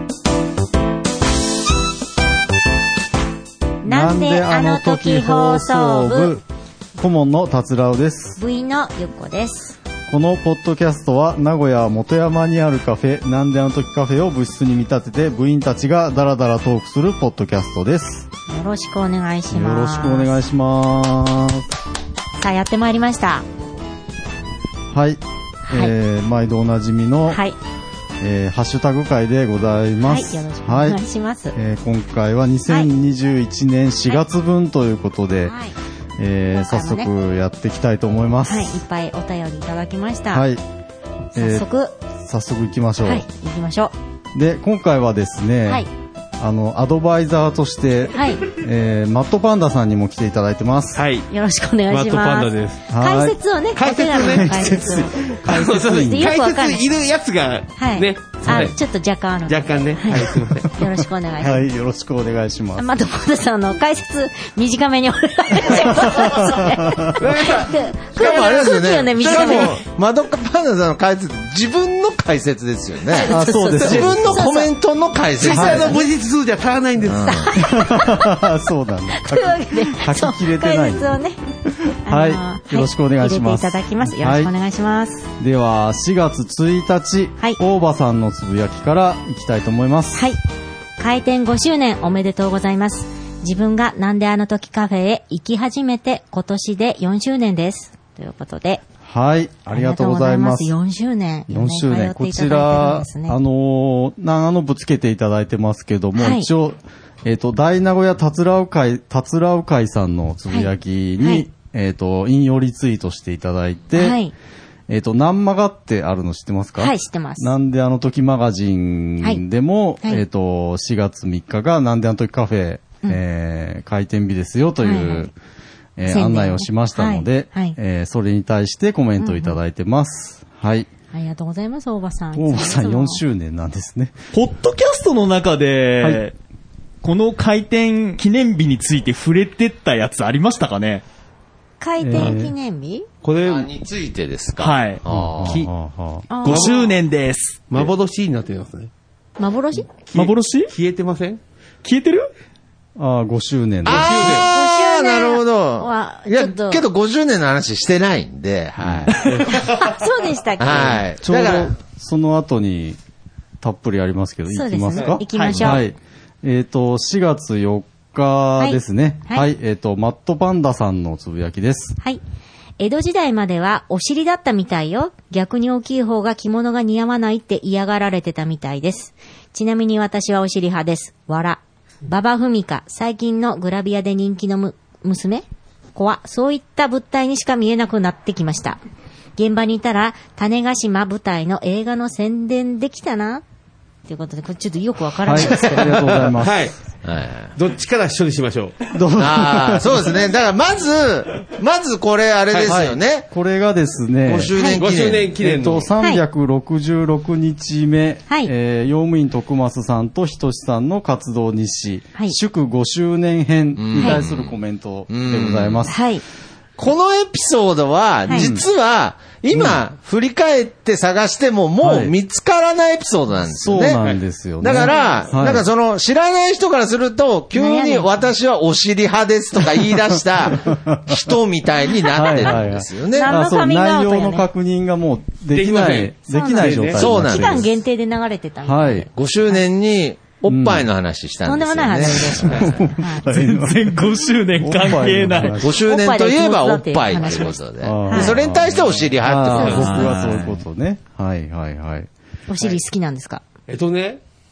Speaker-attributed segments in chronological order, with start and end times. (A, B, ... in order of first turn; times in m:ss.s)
0:03.8-0:06.4 A
0:03.8-0:06.4 B
0:07.0-0:08.4 B
0:08.4-0:09.8 A
0:10.1-0:18.3 B
0:18.5-0:20.4 A
0:19.5-0:21.7 B
0:22.4-0:23.4 A
0:24.9-0:27.4 B
0:25.7-0:25.9 A
0:27.3-0:27.6 A
0:28.2-0:31.0 B
0:30.0-0:31.6 A
0:31.6-0:35.6 B
0:35.4-0:35.7 A
0:36.2-0:38.8 B
0:36.5-0:37.1 A
0:38.4-0:40.5 A
0:40.3-0:40.6 B
0:41.3-0:41.9 A
0:41.4-0:43.2 B
0:43.0-0:43.9 A
0:44.3-0:45.9 B
0:46.4-0:51.0 B
0:48.1-0:48.4 A
0:51.0-0:51.3 C
0:51.3-0:55.3 A
0:51.9-0:52.9 C
0:52.9-0:53.4 B
0:53.7-0:58.8 C
0:54.2-0:56.3 B
0:56.0-0:56.8 A
0:57.8-1:01.6 A
0:59.5-1:00.7 C
1:01.4-1:02.9 B
1:02.8-1:09.8 A
1:05.7-1:07.1 B
1:07.2-1:08.6 C
1:08.1-1:16.0 D
1:09.2-1:09.7 C
1:13.1-1:14.7 A
1:13.3-1:14.3 B
1:15.4-1:17.4 C
1:15.5-1:16.0 B
1:17.0-1:17.6 D
1:17.2-1:18.4 A
1:17.6-1:21.1 B
1:19.2-1:21.4 A
1:21.9-1:24.5 B
1:22.0-1:25.3 A
1:25.4-1:30.2 B
1:31.0-1:38.8 A
1:39.0-1:40.8 B
1:39.7-1:43.4 A
1:41.5-1:54.2 B
1:46.2-1:46.5 A
1:50.5-1:51.5 A
1:54.0-1:54.3 A
1:54.9-2:05.3 B
1:56.8-1:57.5 A
2:04.8-2:05.3 A
2:06.0-2:10.9 B
2:06.1-2:07.8 A
2:09.2-2:09.6 A
2:11.1-2:13.2 A
2:12.4-2:14.2 B
2:14.3-2:16.3 E
2:17.0-2:21.0 E
2:21.8-2:23.1 A
2:22.0-2:22.5 B
2:23.2-2:23.7 C
2:23.4-2:25.6 D
2:24.6-2:25.0 E
2:25.1-2:26.3 B
2:26.3-2:26.8 A
2:26.4-2:26.9 C
2:26.4-2:27.7 E
2:27.7-2:28.9 C
2:29.4-2:29.9 A
2:29.9-2:31.4 C
2:30.2-2:30.7 E
2:31.8-2:32.3 E
2:33.0-2:34.3 B
2:33.8-2:39.4 D
2:33.9-2:34.5 C
2:34.2-2:36.8 A
2:38.8-2:39.1 B
2:39.2-2:40.0 C
2:39.5-2:41.0 A
2:40.6-2:41.7 D
2:40.7-2:41.0 C
2:41.2-2:43.0 B
2:43.6-2:52.0 B
2:44.5-2:45.8 A
2:45.3-2:45.8 E
2:48.6-2:49.5 A
2:52.8-3:08.8 A
3:09.4-3:13.4 A
3:14.1-3:16.3 A
3:15.2-3:16.7 B
3:16.4-3:16.8 C
3:17.0-3:17.5 D
3:17.6-3:18.8 C
3:18.9-3:20.2 B
3:19.2-3:23.3 D
3:22.6-3:24.5 B
3:24.3-3:25.4 D
3:24.6-3:24.8 A
3:24.7-3:25.9 C
3:25.4-3:36.0 B
3:33.8-3:34.6 D
3:34.0-3:34.2 A
3:35.1-3:35.8 D
3:35.9-3:36.2 A
3:36.8-3:44.0 D
3:38.3-3:38.5 A
3:38.3-3:38.7 B
3:39.5-3:39.8 B
3:41.8-3:42.1 B
3:43.5-3:45.7 B
3:44.6-3:53.3 D
3:47.5-3:48.2 A
3:50.6-3:51.3 B
3:52.1-3:57.7 B
3:53.1-3:54.5 A
3:55.5-3:57.1 C
3:56.3-3:59.6 A
3:57.0-3:57.7 D
3:58.6-3:59.1 B
3:59.1-4:02.9 D
4:00.5-4:00.9 B
4:01.4-4:03.2 A
4:02.1-4:04.0 B
4:03.2-4:05.6 E
4:04.6-4:05.8 B
4:05.6-4:10.1 D
4:05.8-4:08.3 A
4:07.8-4:12.1 B
4:09.5-4:09.8 A
4:09.7-4:10.6 E
4:12.5-4:13.4 A
4:13.7-4:14.2 C